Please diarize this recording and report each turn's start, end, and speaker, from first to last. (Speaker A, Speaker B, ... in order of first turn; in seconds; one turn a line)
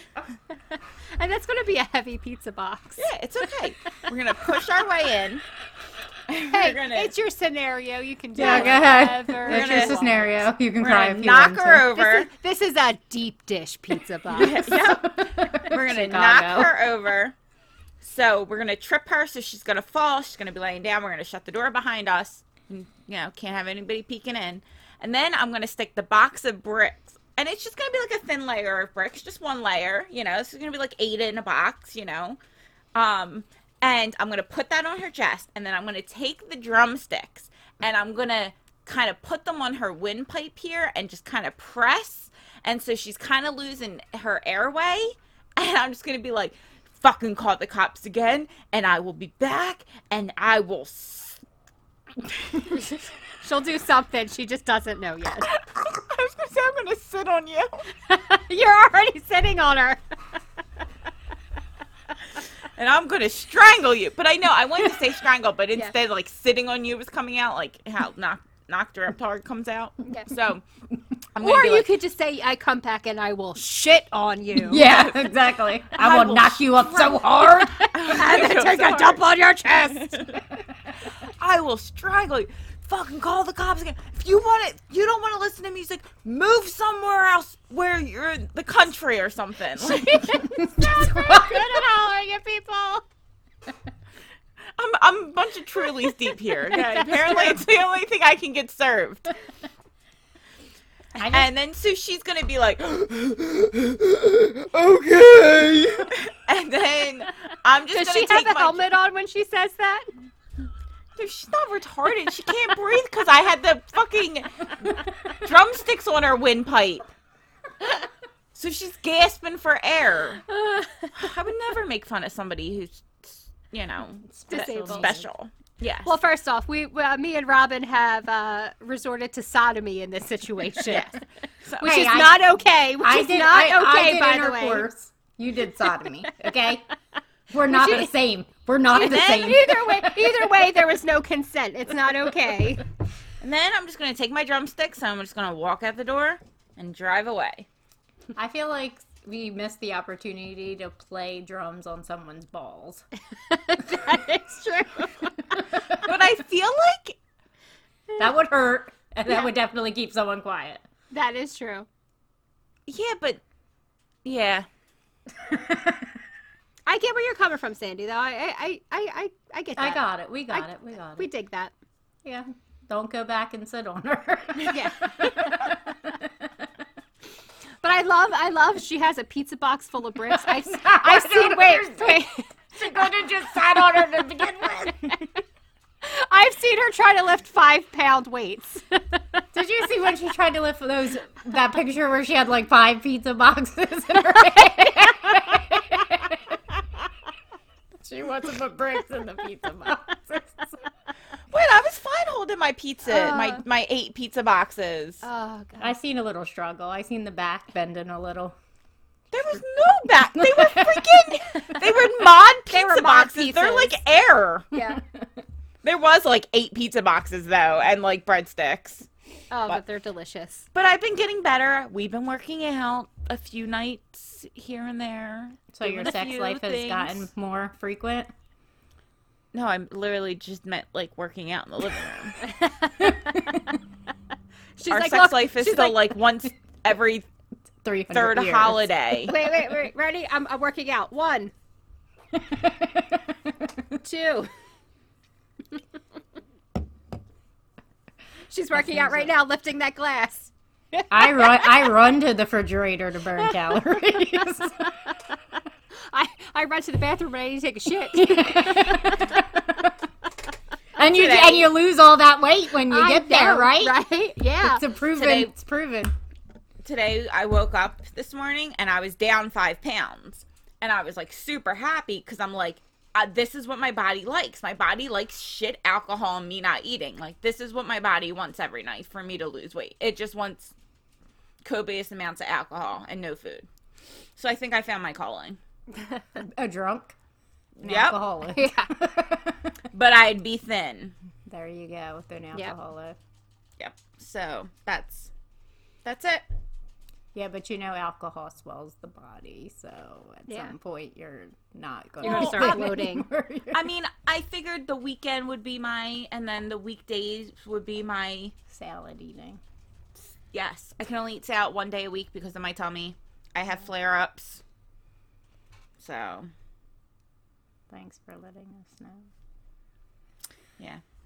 Speaker A: 0.7-3.1
Speaker B: 3.0-5.4
Speaker B: 6.3-7.1
Speaker A: 6.5-10.5
Speaker C: 8.4-11.9
Speaker B: 8.4-8.8
Speaker B: 9.4-10.0
Speaker B: 10.8-12.3
Speaker A: 11.9-14.6
Speaker B: 14.3-17.4
Speaker C: 14.4-16.7
Speaker B: 18.0-32.4
Speaker B: 33.0-51.4
Speaker A: 52.8-55.5
Speaker B: 55.5-57.8
Speaker A: 58.1-60.0
Speaker B: 62.8-70.6
Speaker B: 71.3-71.9
Speaker A: 71.4-74.9
Speaker C: 74.6-78.1
Speaker B: 74.8-75.3
Speaker B: 75.9-80.5
Speaker A: 77.6-80.3
Speaker B: 81.2-90.5
Speaker A: 90.0-93.0
Speaker C: 90.4-91.8
Speaker B: 94.8-99.3
Speaker A: 96.7-97.6
Speaker C: 101.2-101.5
Speaker B: 101.3-108.8
Speaker A: 107.9-110.1
Speaker B: 111.2-117.1
Speaker B: 118.5-120.4
Speaker A: 120.5-121.2
Speaker B: 121.1-126.1
Speaker C: 124.3-125.2
Speaker A: 124.5-125.2
Speaker A: 126.0-131.2
Speaker B: 130.9-131.2
Speaker B: 131.7-132.0
Speaker A: 131.8-134.9
Speaker C: 131.8-132.4
Speaker C: 133.0-136.9
Speaker C: 137.5-140.7
Speaker A: 137.7-138.1
Speaker A: 138.9-142.8
Speaker B: 138.9-139.6
Speaker B: 143.4-147.7
Speaker C: 148.4-153.1
Speaker A: 153.5-155.3
Speaker C: 153.9-154.2
Speaker B: 156.0-157.2
Speaker C: 158.2-160.8
Speaker A: 159.3-159.5
Speaker A: 161.1-161.9
Speaker B: 162.9-163.4
Speaker B: 164.2-164.7
Speaker C: 165.5-166.1
Speaker A: 166.9-171.7
Speaker C: 169.8-171.3
Speaker C: 172.2-176.7
Speaker A: 174.7-175.3
Speaker A: 177.8-183.1
Speaker C: 180.3-185.2
Speaker A: 186.0-189.2
Speaker C: 189.5-196.6
Speaker C: 198.0-200.8
Speaker B: 201.5-205.2
Speaker A: 203.1-203.6
Speaker A: 205.2-205.9
Speaker C: 205.8-208.6
Speaker B: 209.3-214.7
Speaker C: 210.4-211.1
Speaker A: 212.7-214.0
Speaker A: 214.7-215.0
Speaker B: 215.8-219.1
Speaker A: 219.5-220.7
Speaker B: 220.7-227.3
Speaker C: 225.7-228.3
Speaker B: 229.5-232.4
Speaker A: 232.4-233.5
Speaker C: 233.0-233.7
Speaker A: 234.8-236.2
Speaker B: 234.9-237.3
Speaker C: 237.8-239.0
Speaker B: 238.1-239.4
Speaker A: 239.3-241.5
Speaker C: 242.3-243.7
Speaker A: 244.0-244.5
Speaker A: 248.5-251.8
Speaker C: 248.7-249.3
Speaker C: 251.1-254.8
Speaker A: 253.4-253.8
Speaker A: 254.8-255.2
Speaker A: 256.1-259.5
Speaker C: 258.1-259.9
Speaker C: 261.0-264.0
Speaker B: 261.1-261.8
Speaker A: 262.9-264.9
Speaker C: 264.6-266.1
Speaker B: 265.1-265.5
Speaker B: 266.8-280.7
Speaker B: 281.6-283.7
Speaker B: 284.4-285.6
Speaker A: 285.9-286.2
Speaker C: 286.4-287.2
Speaker B: 287.8-288.2
Speaker C: 287.8-289.8
Speaker A: 288.5-288.9
Speaker B: 289.9-291.1
Speaker C: 291.5-293.2
Speaker B: 293.8-295.3
Speaker B: 296.1-296.4
Speaker C: 297.4-303.9
Speaker A: 302.2-303.3
Speaker B: 302.2-303.0
Speaker B: 303.7-308.5
Speaker C: 308.7-309.6
Speaker B: 310.5-314.6
Speaker B: 316.0-316.5
Speaker C: 317.9-319.3